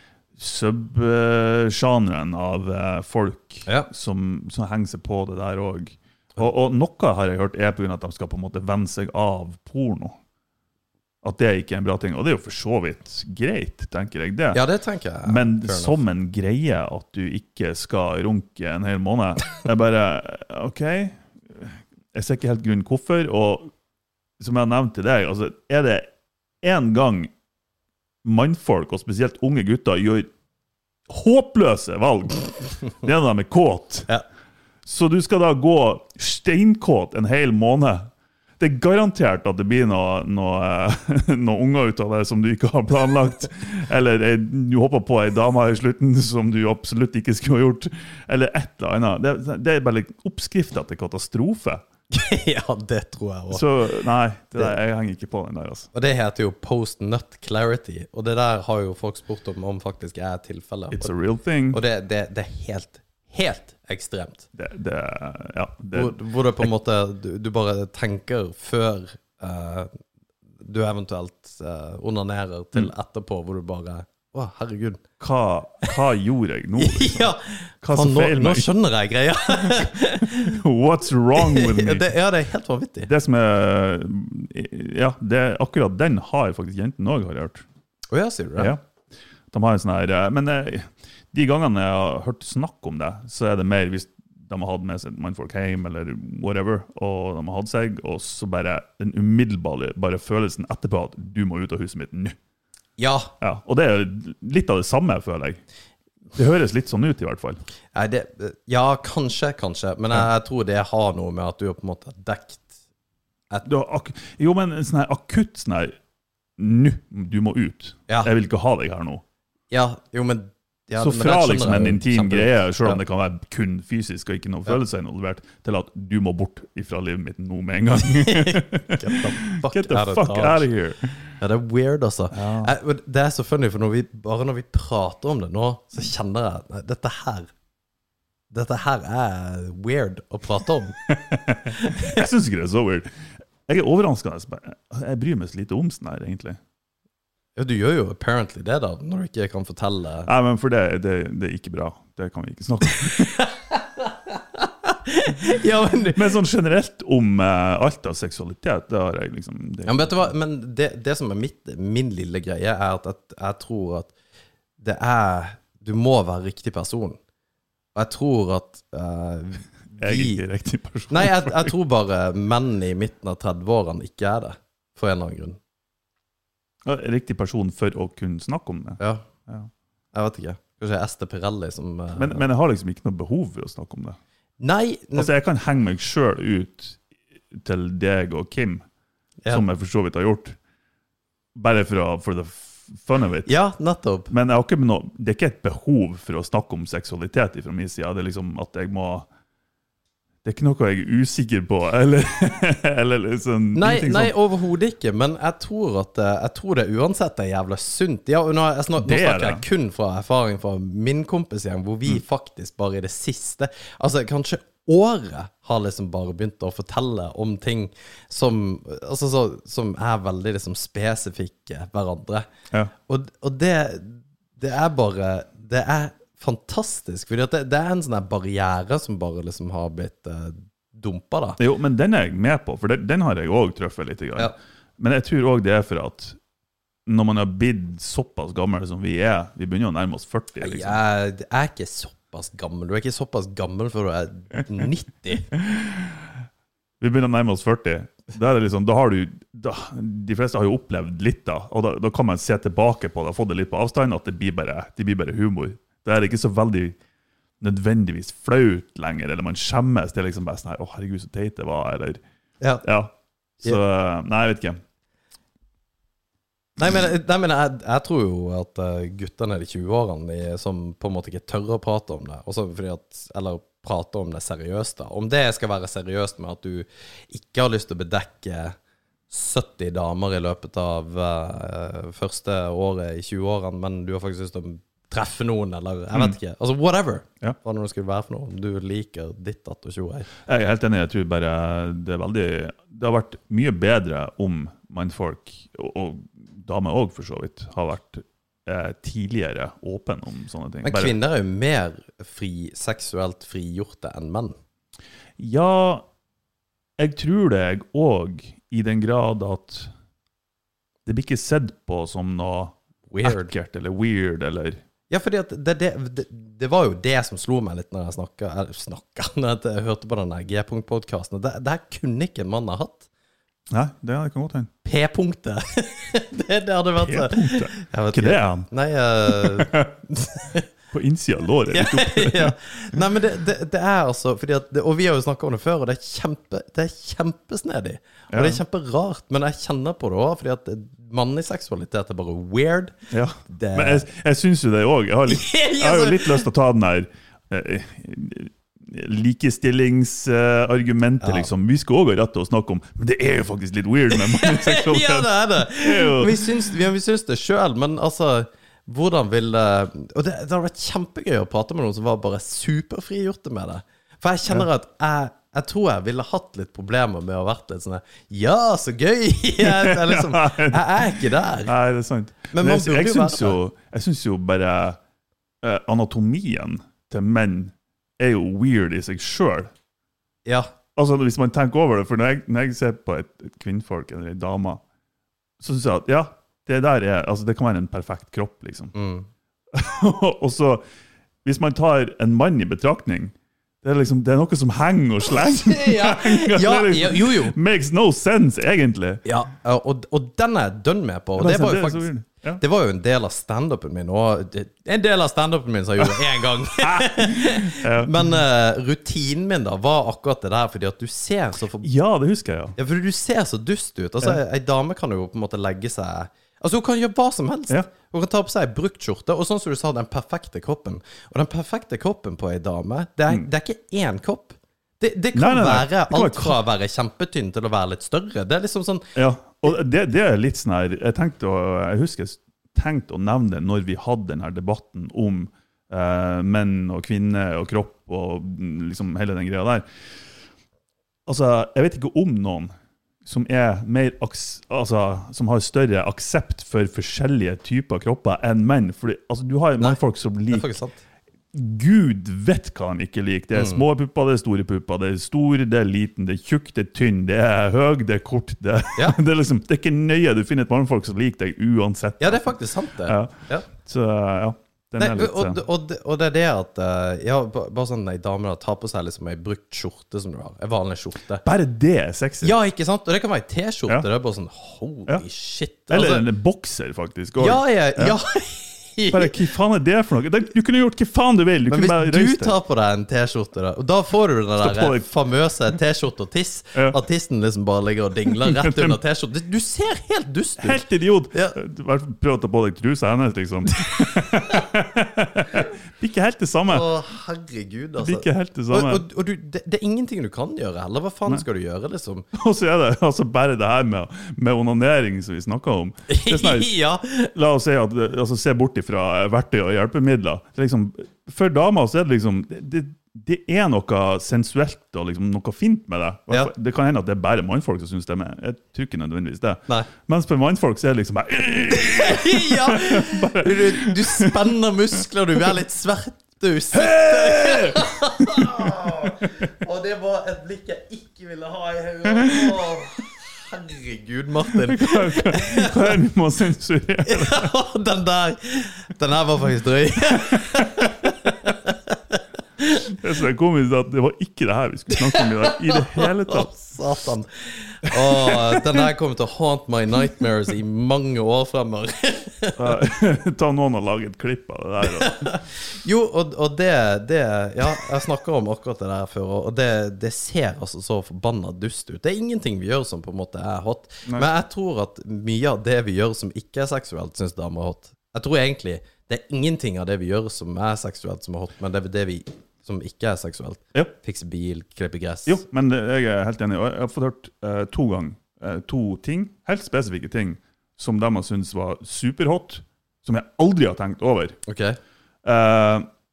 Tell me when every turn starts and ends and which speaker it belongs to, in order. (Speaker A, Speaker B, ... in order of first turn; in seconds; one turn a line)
Speaker A: 0.4-10.2
Speaker A: 11.2-14.6
Speaker B: 14.5-16.0
Speaker A: 15.3-23.7
Speaker A: 24.4-26.1
Speaker A: 26.6-27.3
Speaker A: 28.2-30.3
Speaker A: 31.1-34.1
Speaker A: 34.9-51.8
Speaker B: 52.1-53.6
Speaker A: 53.5-55.9
Speaker B: 55.9-61.1
Speaker A: 60.9-61.8
Speaker B: 61.7-64.5
Speaker A: 64.5-66.7
Speaker B: 65.9-69.9
Speaker B: 70.6-75.0
Speaker A: 75.2-78.7
Speaker B: 76.8-80.6
Speaker A: 79.6-82.1
Speaker B: 81.3-83.1
Speaker A: 83.1-87.7
Speaker B: 88.1-88.7
Speaker A: 88.6-88.8
Speaker A: 89.5-102.4
Speaker B: 103.0-103.3
Speaker A: 103.4-105.6
Speaker A: 106.3-107.6
Speaker B: 107.9-112.7
Speaker A: 113.7-116.0
Speaker A: 116.6-119.2
Speaker B: 119.7-123.0
Speaker A: 121.0-131.3
Speaker B: 128.1-130.7
Speaker B: 131.4-137.5
Speaker A: 132.3-132.7
Speaker B: 138.5-141.0
Speaker A: 141.1-143.1
Speaker B: 141.7-142.3
Speaker A: 143.7-146.6
Speaker B: 147.6-150.3
Speaker A: 150.3-153.4
Speaker B: 153.0-156.3
Speaker A: 156.1-160.3
Speaker B: 159.9-164.1
Speaker B: 164.8-167.2
Speaker B: 167.9-170.4
Speaker A: 170.0-171.7
Speaker B: 171.1-175.6
Speaker A: 176.8-179.7
Speaker B: 179.0-179.3
Speaker B: 180.1-182.4
Speaker A: 182.2-184.2
Speaker B: 184.6-185.3
Speaker A: 185.2-188.8
Speaker A: 189.5-190.6
Speaker A: 191.6-193.5
Speaker B: 193.5-194.3
Speaker A: 194.3-199.3
Speaker A: 200.4-204.3
Speaker B: 203.8-222.5
Speaker A: 209.0-209.6
Speaker B: 223.1-231.6
Speaker A: 231.6-236.4
Speaker A: 237.1-241.0
Speaker B: 240.6-245.5
Speaker A: 245.6-246.3
Speaker A: 247.0-257.0
Speaker A: 257.6-262.2
Speaker A: 262.8-264.8
Speaker B: 266.8-278.8
Speaker B: 279.3-290.3
Speaker A: 290.5-301.1
Speaker B: 300.8-304.6
Speaker A: 305.4-306.1
Speaker A: 307.0-309.9
Speaker A: 311.1-314.8
Speaker B: 313.1-313.5
Speaker B: 315.1-323.1
Speaker A: 323.7-324.7
Speaker B: 324.8-330.7
Speaker A: 327.0-328.7
Speaker A: 329.3-329.9
Speaker A: 330.9-333.0
Speaker B: 331.7-343.0
Speaker A: 338.3-338.6
Speaker A: 343.1-356.7
Speaker B: 343.5-344.1
Speaker B: 345.3-346.5
Speaker B: 351.2-351.5
Speaker B: 354.1-371.7
Speaker A: 369.6-375.0
Speaker B: 372.5-373.6
Speaker A: 375.6-379.7
Speaker A: 381.0-384.8
Speaker A: 385.6-388.9
Speaker B: 388.9-389.3
Speaker A: 389.7-390.8
Speaker A: 391.4-399.2
Speaker B: 395.5-397.6
Speaker B: 399.2-411.9
Speaker A: 401.4-402.6
Speaker A: 406.0-408.4
Speaker A: 411.8-412.8
Speaker B: 412.8-429.8
Speaker A: 425.4-426.6
Speaker A: 429.1-439.9
Speaker A: 441.3-442.7
Speaker A: 443.2-450.7
Speaker B: 449.8-451.0
Speaker A: 451.5-465.6
Speaker B: 453.5-453.8
Speaker B: 462.2-463.7
Speaker B: 465.0-471.4
Speaker A: 471.4-472.6
Speaker B: 472.4-476.3
Speaker A: 475.9-478.2
Speaker B: 477.4-479.4
Speaker A: 479.1-482.6
Speaker B: 481.7-491.6
Speaker A: 484.6-485.1
Speaker A: 488.3-489.0
Speaker A: 490.6-496.9
Speaker B: 494.2-494.6
Speaker B: 496.7-502.3
Speaker A: 498.0-499.0
Speaker A: 502.3-506.8
Speaker B: 506.1-507.3
Speaker A: 507.3-524.4
Speaker B: 521.7-536.0
Speaker A: 526.7-529.1
Speaker A: 532.2-532.6
Speaker A: 534.5-537.5
Speaker B: 537.0-542.9
Speaker A: 540.3-540.9
Speaker A: 542.9-546.5
Speaker B: 544.9-552.8
Speaker A: 547.9-548.8
Speaker A: 552.6-555.4
Speaker B: 554.8-575.4
Speaker A: 575.3-584.4
Speaker B: 584.5-584.8
Speaker A: 585.2-585.9